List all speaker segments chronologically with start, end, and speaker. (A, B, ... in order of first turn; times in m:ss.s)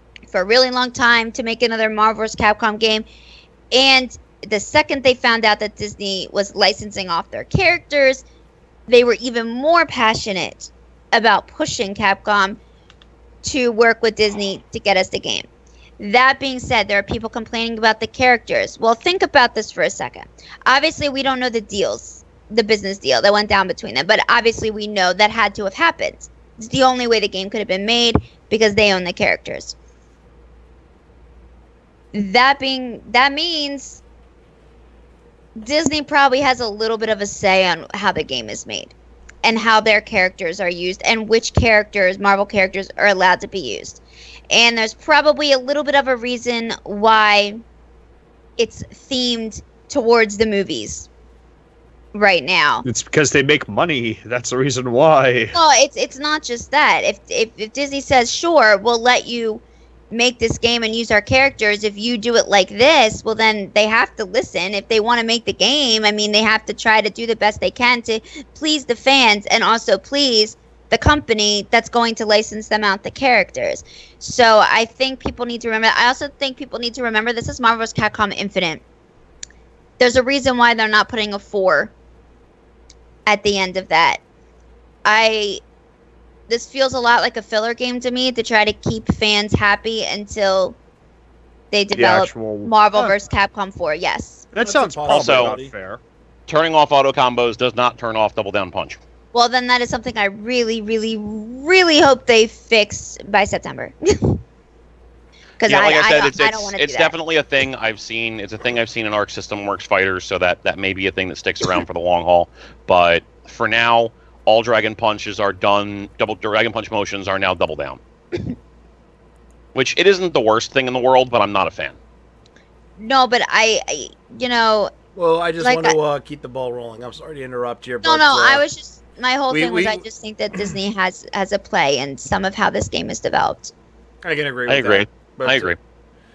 0:00.3-0:03.1 A
0:03.7-0:08.2 A
0:08.9-0:12.6 A
0:13.4-0:15.5 A
0:16.0-0:29.7 A
0:32.1-0:34.0 A
0:35.6-0:47.6 A
0:48.6-0:51.1 A
0:52.1-0:52.8 A
0:52.8-0:55.6 B
0:55.5-1:18.8 A
1:20.0-1:21.9 A
1:23.3-1:24.2 A
1:25.0-1:25.6 A
1:26.5-1:30.8 A
1:31.7-1:34.4 A
1:31.9-1:33.1 B
1:34.5-1:36.0 B
1:34.6-1:35.7 C
1:35.1-1:35.5 D
1:36.5-1:39.0 D
1:39.3-1:44.4 A
1:45.6-1:47.1 A
1:45.7-1:58.0 D
1:59.7-2:02.0 D
2:03.0-2:04.9 A
2:05.2-2:08.6 C
2:05.6-2:06.0 A
2:08.0-2:13.7 A
2:09.5-2:10.0 C
2:14.2-2:15.8 C
2:14.7-2:15.8 D